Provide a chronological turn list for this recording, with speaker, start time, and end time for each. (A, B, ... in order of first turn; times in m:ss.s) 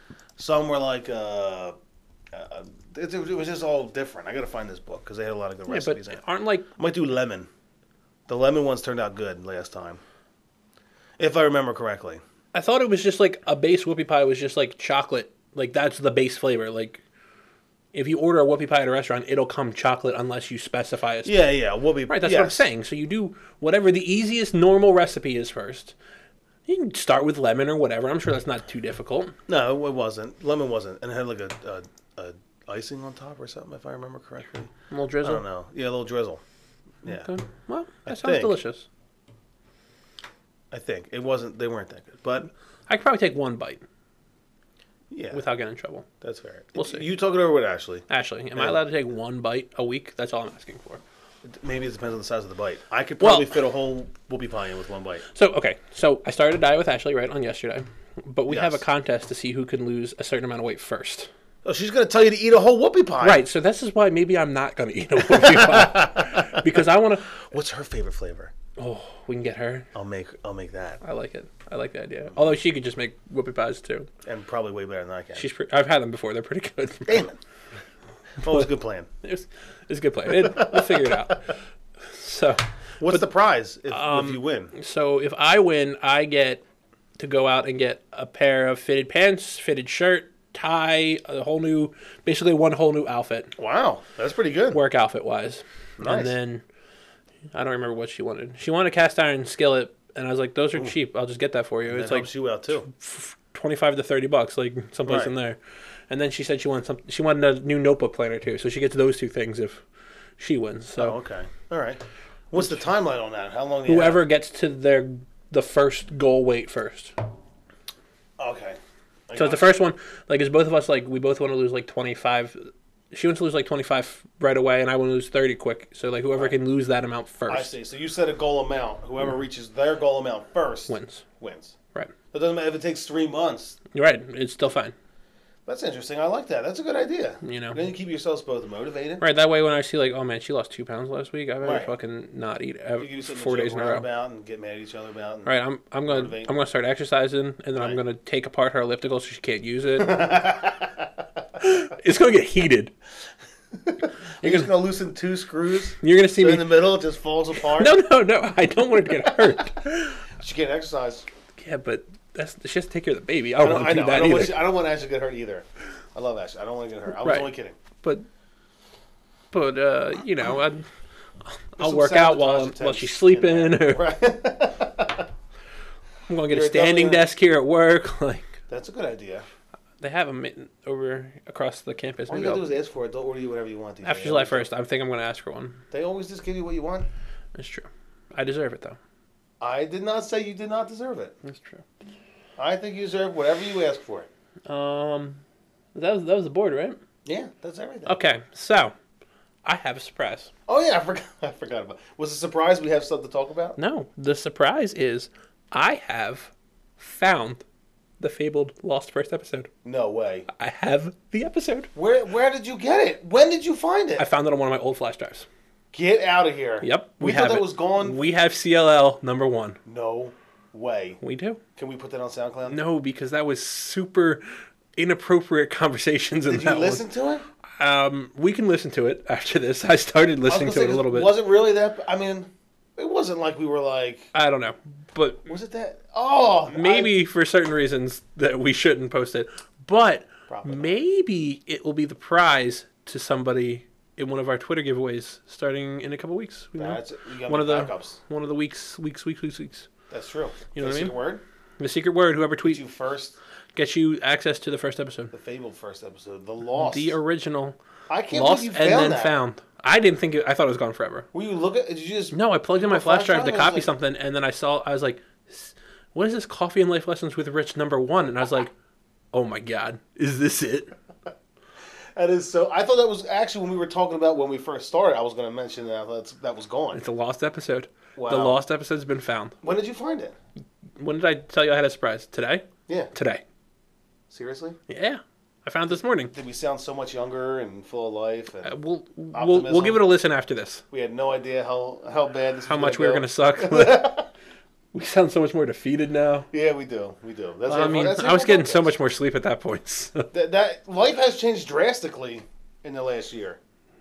0:00.4-0:01.8 A
0:02.3-0:06.2 A
0:05.7-0:06.7 B
0:06.8-0:07.5 A
0:08.3-0:10.0 A
0:11.2-0:12.2 A
0:12.5-0:17.0 B
0:17.9-0:21.4 B
0:21.2-0:22.6 A
0:22.1-0:26.0 B
0:26.7-0:29.4 B
0:29.5-0:36.4 A
0:34.9-0:35.4 B
0:37.0-0:37.3 A
0:37.0-0:38.9 B
0:38.1-0:38.6 A
0:40.7-0:42.5 A
0:42.9-0:43.8 B
0:45.1-0:45.4 A
0:45.3-0:46.1 B
0:46.2-0:48.8 A
0:46.8-0:47.0 B
0:48.1-0:51.0 B
0:51.4-0:55.2 A
0:53.2-0:53.5 B
0:55.3-1:01.3 B
0:58.5-0:58.8 A
1:01.6-1:03.4 A
1:03.2-1:07.4 B
1:05.2-1:06.8 A
1:07.4-1:08.5 A
1:08.8-1:09.9 B
1:09.9-1:11.0 A
1:11.0-1:14.1 B
1:14.2-1:15.5 A
1:15.4-1:17.3 B
1:17.1-1:17.4 A
1:18.4-1:19.1 A
1:19.2-1:23.3 B
1:20.3-1:21.2 A
1:23.0-1:24.7 A
1:23.9-1:26.6 B
1:27.2-1:33.5 B
1:33.6-1:34.8 A
1:34.7-1:36.6 B
1:36.0-1:36.4 A
1:37.5-1:42.3 B
1:41.9-1:42.9 A
1:42.8-1:45.6 B
1:45.1-1:45.3 A
1:46.1-1:49.8 B
1:50.4-1:51.2 B
1:51.0-1:54.2 A
1:53.9-1:57.2 B
1:58.4-1:58.8 A
1:59.3-1:59.7 A
1:59.4-2:07.7 B
2:07.5-2:11.8 A
2:10.9-2:11.2 B
2:12.3-2:13.8 A
2:13.9-2:15.0 B
2:15.7-2:19.2 A
2:17.4-2:17.8 B
2:19.2-2:24.1 B
2:21.6-2:21.9 A
2:23.0-2:25.5 A
2:25.4-2:30.3 B
2:26.1-2:26.5 A
2:30.0-2:31.1 A
2:31.6-2:32.9 B
2:33.8-2:38.0 A
2:34.4-2:34.7 B
2:36.0-2:36.8 B
2:37.7-2:40.3 B
2:39.0-2:39.7 A
2:40.4-2:41.3 A
2:41.6-2:44.6 B
2:43.6-2:47.8 A
2:47.2-2:48.3 B
2:49.5-2:50.9 B
2:51.8-2:54.1 B
2:51.8-2:55.3 A
2:56.3-2:58.6 B
2:56.5-2:57.3 A
2:58.7-2:59.4 A
3:00.0-3:02.7 B
3:02.3-3:04.7 A
3:04.0-3:05.8 B
3:05.9-3:07.1 A
3:07.6-3:09.0 B
3:09.6-3:11.4 A
3:11.4-3:11.9 B
3:12.6-3:14.3 A
3:14.7-3:15.4 B
3:16.0-3:17.0 B
3:17.2-3:18.2 A
3:18.1-3:19.0 B
3:19.6-3:20.5 B
3:20.7-3:23.8 A
3:23.8-3:27.6 B
3:28.2-3:29.7 B
3:29.8-3:30.5 A
3:30.5-3:31.9 B
3:32.0-3:34.3 A
3:34.2-3:35.5 B
3:35.9-3:38.2 A
3:36.8-3:39.8 B
3:39.8-3:41.2 A
3:41.2-3:41.6 B
3:41.8-3:42.8 A
3:42.7-3:44.4 B
3:45.0-3:47.0 B
3:46.5-3:47.4 A
3:47.8-3:51.3 B
3:50.5-3:54.3 A
3:54.3-3:55.5 B
3:55.5-3:57.1 A
3:56.7-4:09.9 B
4:00.5-4:01.0 A
4:06.8-4:08.2 A
4:10.1-4:11.4 A
4:10.7-4:11.2 B
4:11.8-4:12.8 B
4:12.6-4:13.4 A
4:13.8-4:15.3 B
4:15.3-4:17.2 A
4:16.8-4:17.8 B
4:18.1-4:19.4 A
4:18.3-4:21.3 B
4:21.3-4:23.9 A
4:22.3-4:28.7 B
4:29.3-4:30.9 B
4:32.2-4:37.0 A
4:36.9-4:39.6 B
4:38.2-4:38.6 A
4:39.6-4:40.4 A
4:41.0-4:43.4 B
4:44.3-4:44.8 A
4:44.9-4:46.3 B
4:46.3-4:48.8 A
4:48.6-4:50.8 B
4:49.3-4:50.0 A
4:50.9-4:54.3 A
4:52.7-4:54.2 B
4:54.9-4:56.5 B
4:56.5-4:59.0 A
4:57.7-5:00.3 B
5:00.3-5:03.6 A